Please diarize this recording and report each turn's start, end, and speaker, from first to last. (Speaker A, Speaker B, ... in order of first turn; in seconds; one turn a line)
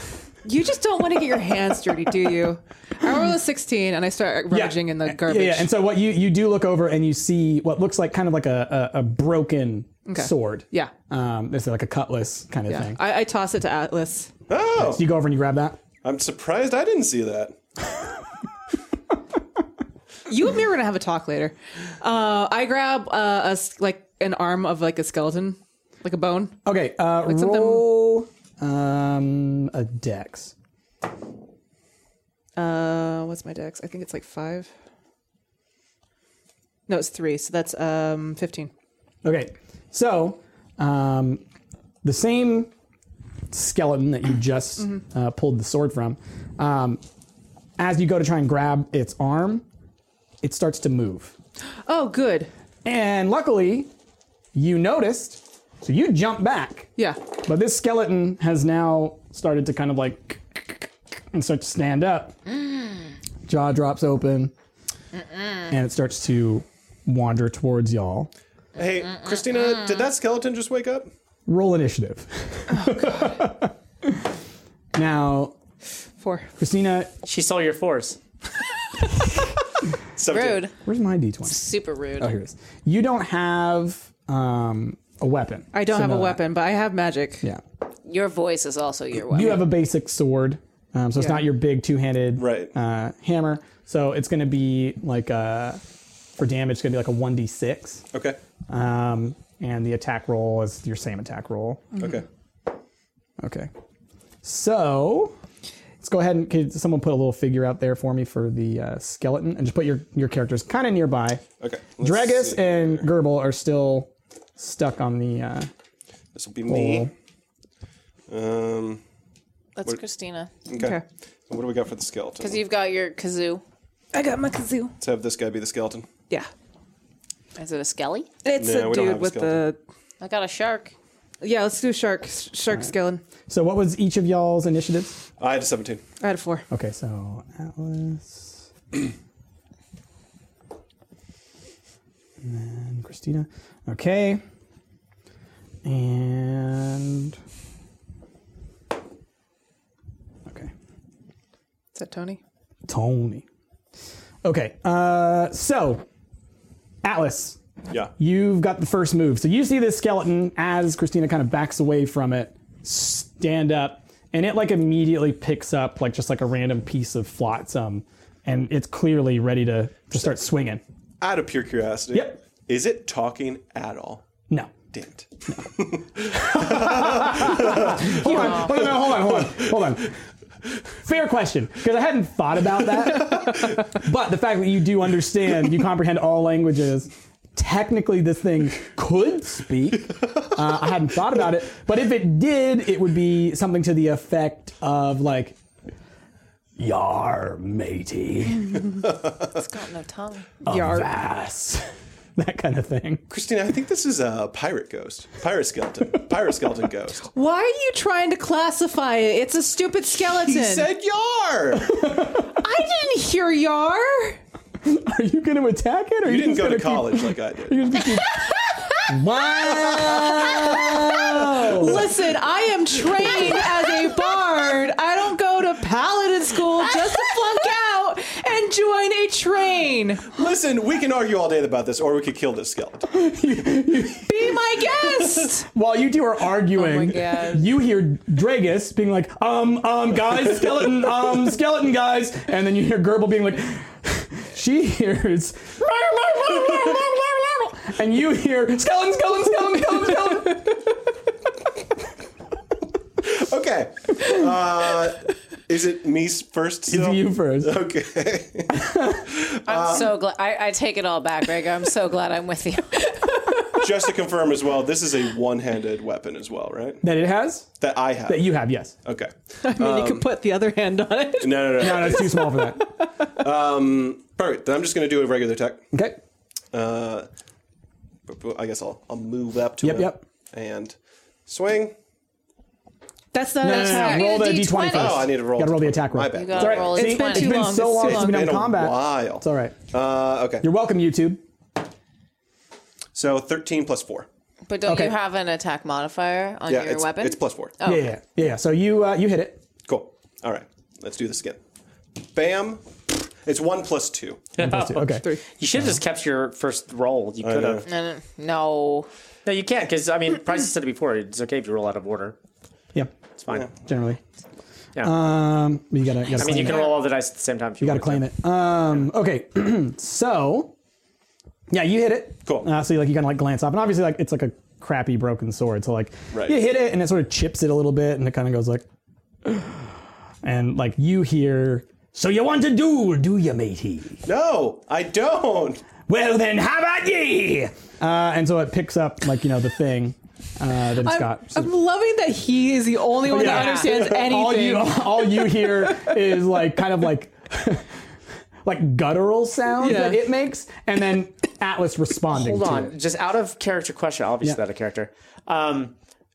Speaker A: 0.4-5.7
Speaker B: 4.5-13.0
Speaker A: 10.1-10.9
Speaker A: 12.7-14.3
Speaker C: 14.5-15.0
Speaker B: 14.8-15.8
Speaker C: 16.0-17.6
Speaker A: 20.3-26.6
Speaker B: 26.6-30.5
Speaker A: 27.2-27.9
Speaker A: 32.5-34.7
Speaker A: 36.9-38.7
Speaker B: 39.2-41.4
Speaker B: 42.0-42.7
Speaker B: 43.5-47.0
Speaker B: 47.8-49.6
Speaker B: 50.4-51.3
Speaker A: 51.9-52.5
Speaker B: 52.8-53.9
Speaker B: 54.5-56.9
Speaker B: 57.4-62.4
Speaker B: 63.5-64.5
Speaker B: 65.7-68.3
Speaker C: 68.7-71.1
Speaker B: 71.5-74.3
Speaker A: 72.7-73.0
Speaker B: 74.9-75.5
Speaker A: 76.2-76.5
Speaker B: 76.6-77.1
Speaker D: 77.2-78.2
Speaker C: 80.2-80.7
Speaker E: 80.3-80.7
Speaker B: 80.8-81.6
Speaker E: 81.5-82.3
Speaker B: 82.2-86.4
Speaker A: 85.7-87.5
Speaker E: 88.0-89.7
Speaker B: 89.3-95.8
Speaker A: 91.2-91.4
Speaker C: 92.3-92.7
Speaker B: 96.4-98.0
Speaker C: 98.1-98.4
Speaker B: 98.7-101.9
Speaker C: 102.0-102.2
Speaker B: 103.4-103.7
Speaker B: 104.4-105.3
Speaker B: 106.0-111.5
Speaker C: 111.6-113.0
Speaker B: 112.0-115.7
Speaker C: 116.3-117.1
Speaker B: 116.7-117.1
Speaker C: 118.3-119.0
Speaker E: 119.8-120.5
Speaker C: 120.7-122.6
Speaker A: 120.7-121.0
Speaker E: 122.4-123.6
Speaker A: 124.1-124.9
Speaker C: 125.0-126.1
Speaker E: 127.5-128.3
Speaker A: 128.4-129.8
Speaker C: 128.6-129.7
Speaker E: 130.2-130.9
Speaker A: 131.4-133.2
Speaker B: 133.5-135.2
Speaker C: 135.4-136.0
Speaker A: 136.2-136.6
Speaker B: 136.7-138.7
Speaker B: 142.4-144.4
Speaker B: 145.8-147.4
Speaker A: 151.9-152.4
Speaker B: 152.9-153.4
Speaker B: 154.4-156.0
Speaker B: 157.0-157.6
Speaker B: 158.2-170.8
Speaker C: 171.2-174.2
Speaker B: 172.1-172.4
Speaker B: 174.5-174.8
Speaker C: 174.9-179.7
Speaker B: 176.2-180.1
Speaker B: 181.0-195.6
Speaker B: 196.8-198.8
Speaker C: 199.0-199.5
Speaker E: 199.5-200.5
Speaker A: 200.6-201.1
Speaker B: 200.7-201.8
Speaker B: 202.3-203.2
Speaker C: 203.3-207.3
Speaker A: 207.3-210.9
Speaker C: 210.4-212.0
Speaker B: 211.7-212.6
Speaker A: 212.5-214.4
Speaker B: 214.8-218.5
Speaker C: 216.2-217.8
Speaker B: 219.1-222.1
Speaker A: 220.3-230.3
Speaker C: 230.3-233.1
Speaker B: 233.1-234.5
Speaker A: 234.2-235.7
Speaker B: 235.6-250.9
Speaker E: 236.7-237.7
Speaker C: 253.2-260.2
Speaker B: 256.9-257.8
Speaker B: 258.7-259.3
Speaker E: 259.6-263.0
Speaker A: 263.2-263.7
Speaker C: 263.7-267.0
Speaker B: 267.0-267.7
Speaker C: 267.8-270.2
Speaker B: 268.3-268.9
Speaker A: 269.6-272.8
Speaker C: 271.4-272.5
Speaker B: 271.8-272.9
Speaker C: 273.4-275.8
Speaker B: 275.9-276.2
Speaker C: 276.7-277.3
Speaker C: 278.3-281.9
Speaker B: 279.8-280.2
Speaker A: 283.3-284.8
Speaker B: 283.6-289.8
Speaker E: 283.7-285.2
Speaker C: 284.8-287.1
Speaker E: 286.3-287.7
Speaker A: 286.9-288.5
Speaker C: 287.8-290.7
Speaker B: 290.6-291.4
Speaker C: 293.1-294.3
Speaker E: 294.7-298.1
Speaker B: 294.8-295.1
Speaker C: 296.7-297.7
Speaker B: 297.8-299.6
Speaker C: 299.8-301.6
Speaker C: 302.3-302.8
Speaker C: 303.4-304.5
Speaker D: 304.6-307.9
Speaker B: 304.6-306.0
Speaker C: 307.4-307.9
Speaker E: 307.8-309.1
Speaker D: 309.4-312.4
Speaker D: 313.4-313.7
Speaker B: 313.7-314.2
Speaker B: 315.0-316.9
Speaker E: 316.3-316.9
Speaker D: 316.4-318.2
Speaker B: 317.8-320.7
Speaker B: 321.7-328.8
Speaker C: 326.3-326.6
Speaker B: 329.4-329.9
Speaker B: 330.4-334.2
Speaker C: 334.2-335.9
Speaker B: 336.1-341.7
Speaker A: 341.0-346.1
Speaker B: 343.2-347.9
Speaker E: 343.4-343.8
Speaker B: 348.6-352.9
Speaker A: 349.8-350.2
Speaker D: 352.3-355.9